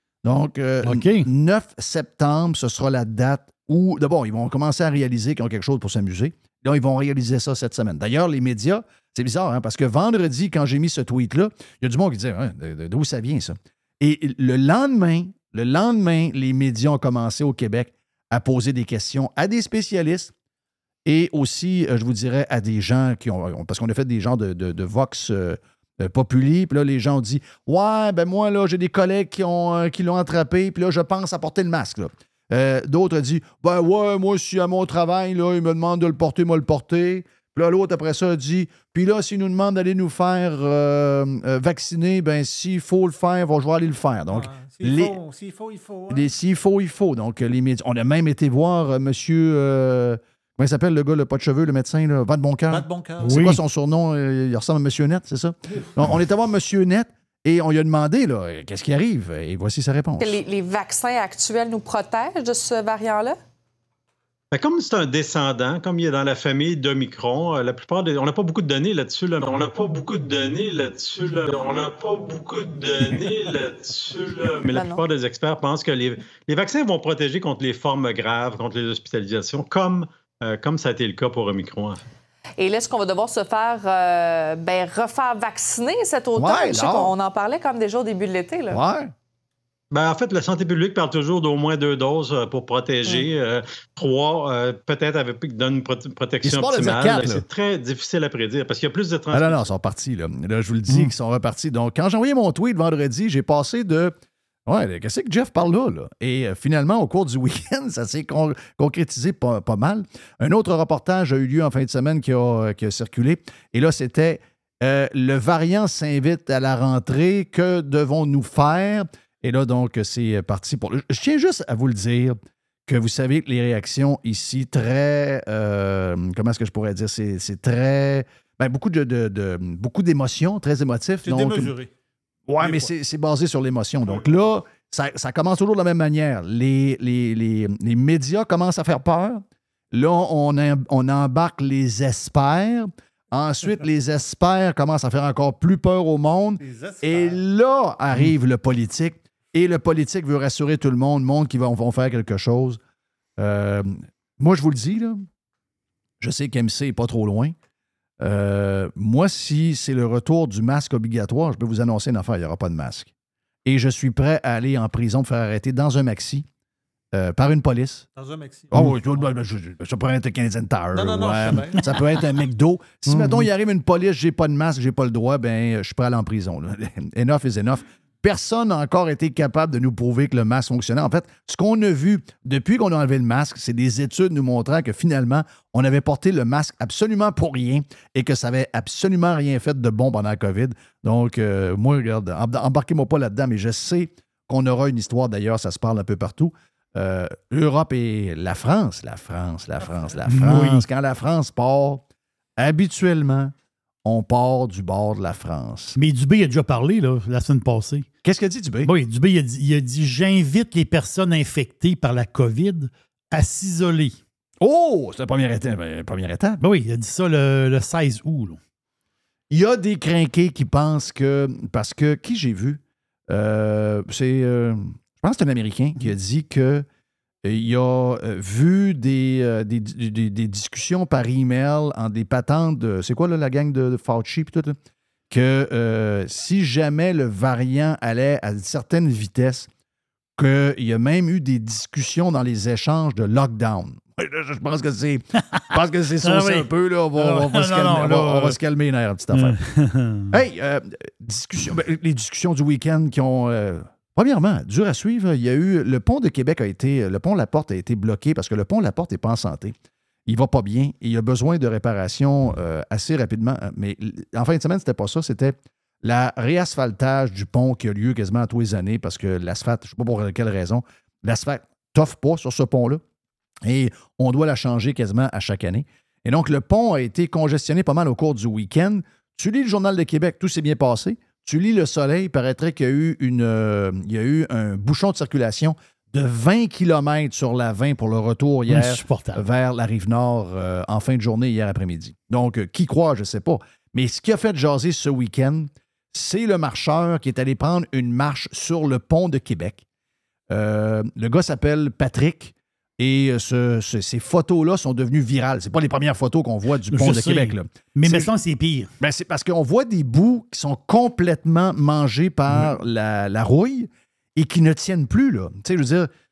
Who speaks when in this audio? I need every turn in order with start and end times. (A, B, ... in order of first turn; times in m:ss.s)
0:00.2-0:20.3 A
0:00.8-0:01.3 B
0:21.1-0:45.2 A
0:44.3-0:46.3 C
0:46.1-1:00.4 A
0:52.7-0:53.4 C
0:53.2-0:53.6 B
1:00.2-1:03.4 D
1:04.5-1:22.0 E
1:14.7-1:15.0 D
1:22.6-1:28.8 D
1:26.4-1:27.1 A
1:28.7-1:29.1 A
1:29.9-1:39.7 E
1:36.4-1:37.4 A
1:39.3-1:44.2 A
1:44.7-2:02.4 A
2:02.9-2:11.7 A
2:11.2-2:11.9 C
2:12.5-2:32.8 A
2:12.6-2:12.9 C
2:26.6-2:27.4 C
2:33.4-2:35.2 A
2:36.2-2:37.6 A
2:38.2-2:43.1 A
2:43.6-2:46.4 A
2:47.1-2:48.1 A
2:48.2-2:49.3 C
2:48.7-3:22.0 A
2:50.9-2:51.9 C
2:53.1-2:53.5 B
3:20.3-3:20.9 B
3:22.6-3:23.5 A
3:24.0-3:26.0 A
3:26.0-3:28.1 B
3:28.2-3:28.9 A
3:28.9-3:34.2 B
3:34.6-3:36.6 A
3:36.6-3:38.6 B
3:39.5-3:46.9 A
3:47.4-3:54.8 A
3:55.3-3:59.7 A
4:00.4-4:09.6 A
4:05.4-4:08.6 B
4:09.3-4:10.3 B
4:10.3-4:19.8 A
4:20.3-4:33.0 A
4:33.6-4:59.8 A
4:48.7-4:49.4 B
5:00.5-5:08.3 A
5:06.9-5:08.9 B
5:09.0-5:16.1 A